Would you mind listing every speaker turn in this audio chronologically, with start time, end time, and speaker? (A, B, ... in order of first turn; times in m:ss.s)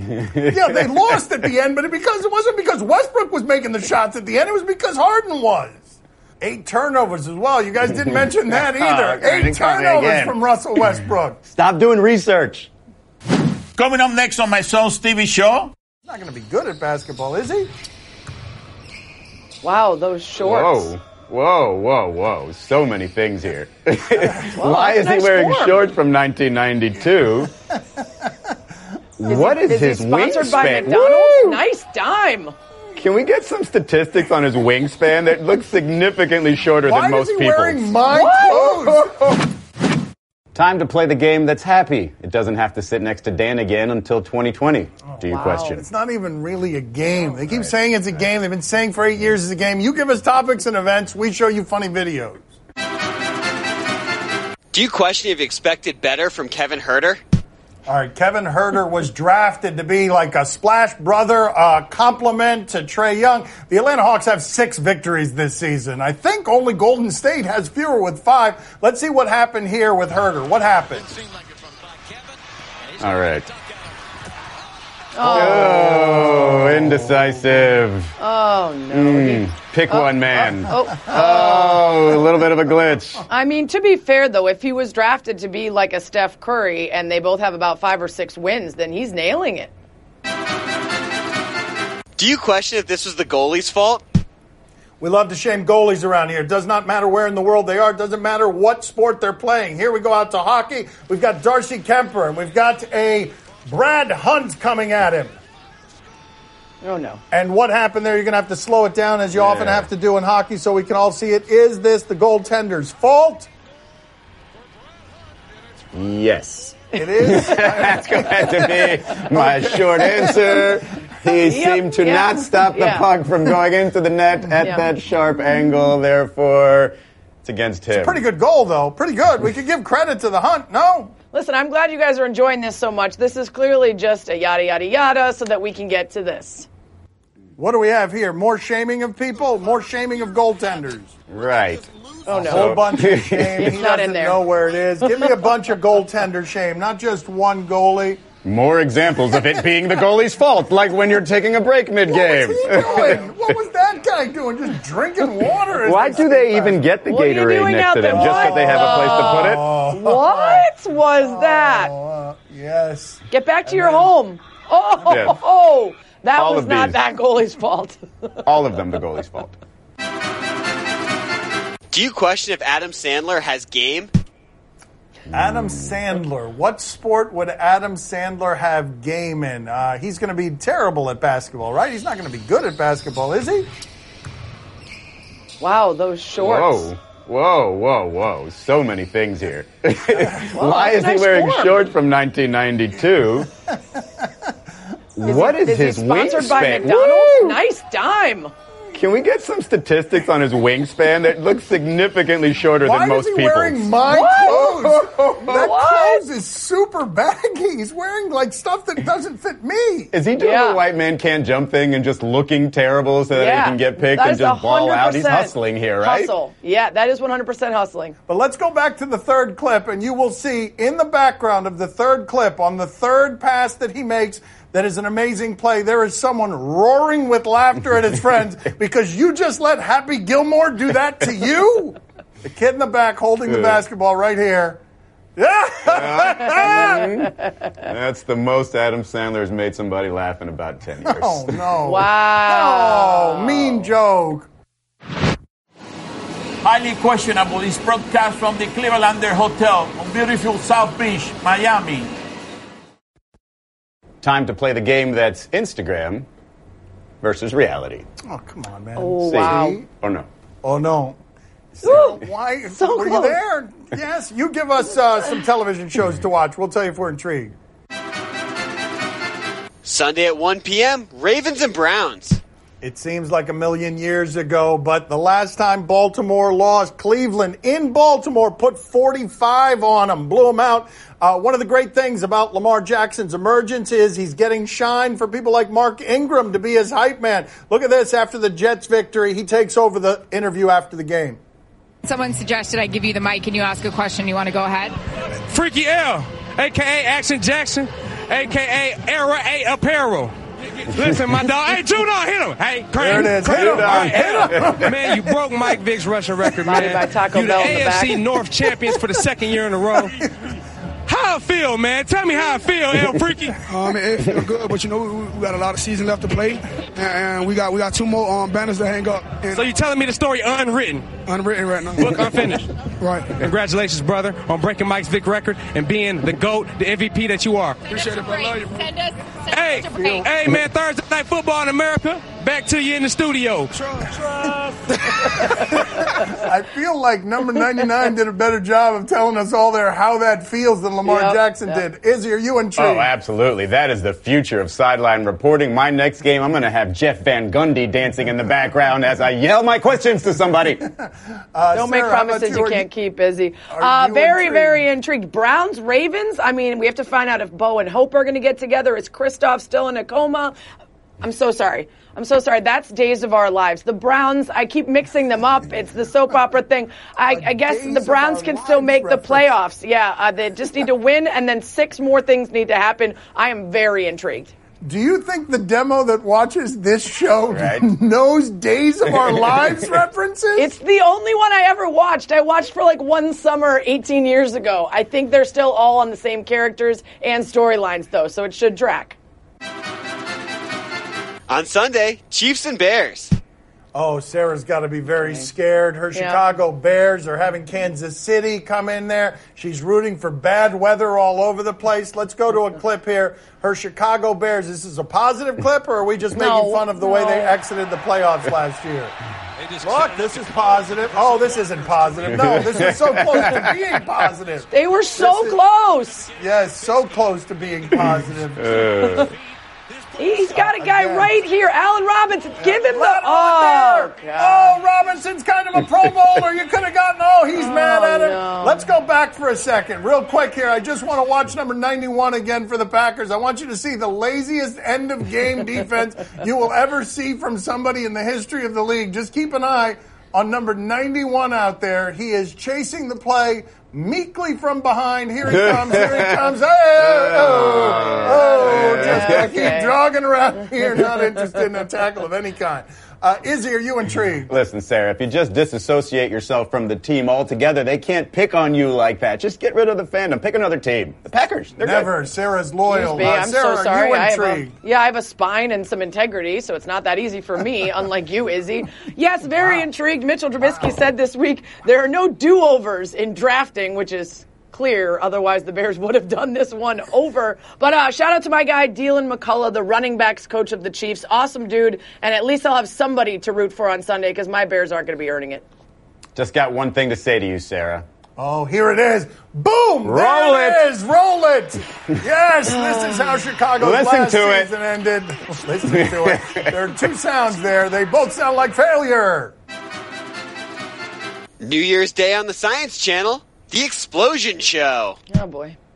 0:00.4-0:11.4 A
0:08.6-0:10.4 B
0:11.4-0:12.7 B
0:13.8-0:15.7 C
0:16.0-0:17.7 A
0:19.6-0:20.9 D
0:20.4-0:27.5 B
0:24.4-0:25.9 D
0:29.2-0:31.6 B
0:29.3-0:32.5 D
0:33.0-0:38.0 B
0:36.8-0:39.2 A
0:38.1-0:38.7 D
0:38.5-0:39.3 B
0:40.6-0:45.8 B
0:45.1-0:52.4 A
0:45.2-0:45.8 D
0:54.7-0:56.9 E
0:54.7-0:57.2 B
0:57.9-1:11.2 A
1:13.0-1:13.5 B
1:15.1-1:16.0 D
1:15.2-1:18.2 B
1:15.6-1:16.7 A
1:18.2-1:21.9 D
1:18.9-1:23.2 B
1:20.6-1:21.0 A
1:23.3-1:29.7 D
1:32.2-1:34.0 E
1:35.0-1:45.4 A
1:46.8-1:47.2 D
1:47.3-1:53.5 A
1:49.3-1:49.9 B
1:55.9-2:08.2 B
1:57.0-2:00.6 A
1:57.3-1:57.7 D
2:01.2-2:03.1 D
2:04.6-2:04.9 D
2:07.9-2:11.1 A
2:11.3-2:16.7 D
2:17.6-2:21.1 A
2:21.3-2:23.8 B
2:22.3-2:22.8 D
2:22.4-2:28.2 A
2:23.6-2:24.4 D
2:28.4-2:33.3 B
2:29.2-2:29.6 A
2:32.0-2:36.8 A
2:35.8-2:39.6 B
2:37.1-2:41.9 D
2:38.1-2:44.1 A
2:43.3-2:48.4 D
2:45.0-2:45.3 A
2:45.1-2:45.4 B
2:46.4-2:47.0 B
2:48.4-2:49.6 B
2:51.9-2:54.1 E
2:55.3-2:56.0 B
2:55.3-3:03.7 A
3:05.6-3:06.9 D
3:06.4-3:13.5 B
3:10.4-3:11.9 D
3:15.2-3:17.6 B
3:15.2-3:18.5 D
3:18.9-3:24.0 B
3:22.8-3:30.1 A
3:24.1-3:24.8 D
3:24.5-3:25.7 B
3:25.5-3:26.2 D
3:30.1-3:36.3 B
3:30.4-3:30.8 D
3:33.3-3:38.2 D
3:38.3-3:54.8 A
3:53.5-3:53.8 B
3:55.4-3:57.2 A
3:55.9-4:01.7 B
4:01.0-4:04.5 A
4:01.8-4:03.9 D
4:06.6-4:12.1 C
4:14.2-4:16.3 B
4:17.2-4:18.1 B
4:18.2-4:19.8 A
4:19.0-4:19.8 D
4:19.2-4:20.3 B
4:20.6-4:21.2 A
4:21.8-4:27.5 A
4:21.8-4:23.4 D
4:29.8-4:32.4 E
4:30.8-4:31.2 B
4:31.9-4:32.4 B
4:32.8-4:51.4 A
4:52.0-4:55.0 F
4:55.5-5:10.3 G
5:03.0-5:05.4 A
5:03.6-5:04.8 B
5:06.6-5:08.2 D
5:10.0-5:10.3 A
5:11.1-5:13.6 G
5:13.6-5:19.8 H
5:19.5-5:21.1 G
5:21.3-5:23.4 H
5:22.0-5:22.7 G
5:23.3-5:28.0 G
5:27.8-5:30.3 F
5:28.0-5:28.9 H
5:29.5-5:33.8 G
5:29.7-5:30.3 A
5:33.7-5:34.8 H
5:35.2-5:36.1 G
5:35.3-5:43.1 A
5:41.0-5:41.8 D
5:42.8-5:50.8 B
5:50.8-5:52.9 A
5:51.7-6:00.6 D
5:53.7-5:54.8 A
6:01.2-6:14.5 D
6:07.3-6:09.5 A
6:14.8-6:20.7 A
6:17.5-6:17.9 B
6:20.6-6:29.2 D
6:31.5-6:33.3 E
6:33.9-6:49.1 A
6:36.1-6:36.4 D
6:46.3-6:47.6 D
6:49.8-6:55.6 A
6:52.3-6:53.7 B
6:54.7-6:56.3 D
6:56.4-6:58.8 A
6:58.6-6:59.3 B
6:59.0-6:59.3 D
7:00.2-7:04.8 D
7:00.5-7:01.3 A
7:02.6-7:34.5 A
7:07.5-7:08.9 D
7:25.5-7:26.4 B
7:27.0-7:29.5 B
7:27.4-7:30.0 D
7:34.5-7:42.1 B
7:41.8-7:44.7 A
7:42.9-8:05.6 D
7:49.6-7:49.9 A
7:50.6-7:50.9 A
8:06.4-8:08.0 B
8:08.4-8:19.5 A
8:10.0-8:10.8 B
8:13.8-8:14.7 B
8:15.9-8:16.7 B
8:21.6-8:25.2 E
8:25.3-8:25.8 D